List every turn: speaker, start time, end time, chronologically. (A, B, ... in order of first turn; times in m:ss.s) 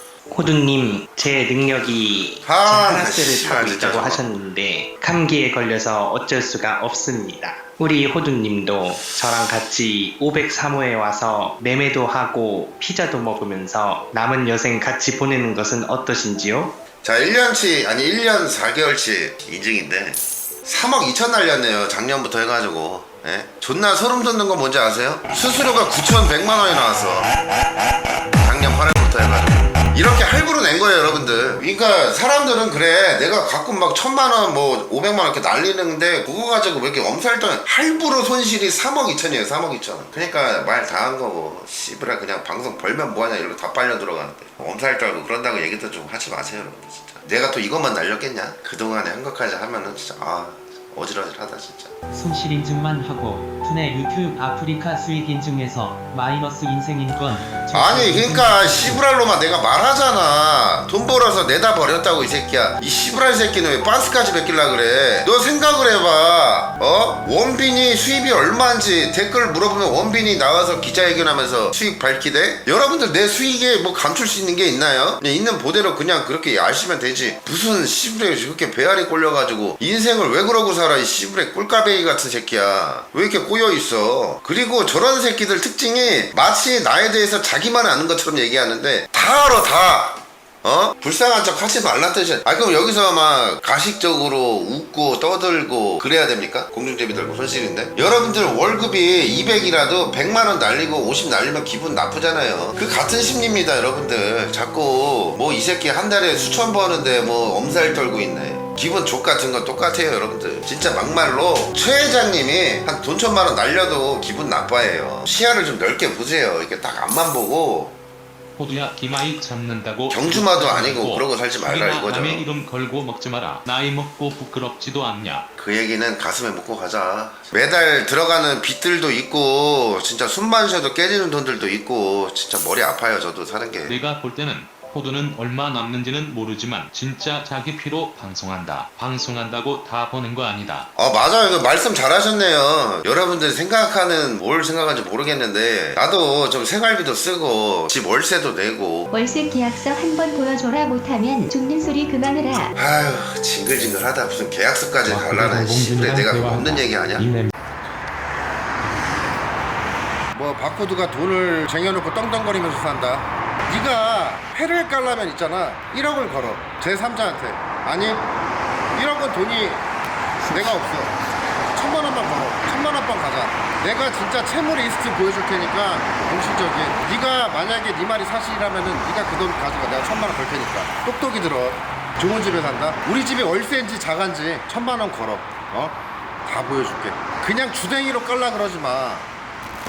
0:00.3-0:16.7 A
0:02.4-0:04.2 B
0:17.0-0:27.3 B
0:28.4-0:51.9 B
0:52.1-0:59.0 C
0:57.7-1:57.9 B
1:58.6-2:05.4 D
2:00.1-2:02.4 B
2:05.6-2:14.0 B
2:13.9-2:20.9 D
2:21.0-2:29.1 B
2:29.1-2:32.7 E
2:32.7-2:37.3 B
2:35.3-2:37.5 C
2:40.3-2:48.3 B
2:48.9-2:49.8 B
2:50.5-2:51.1 B
2:51.7-3:09.3 B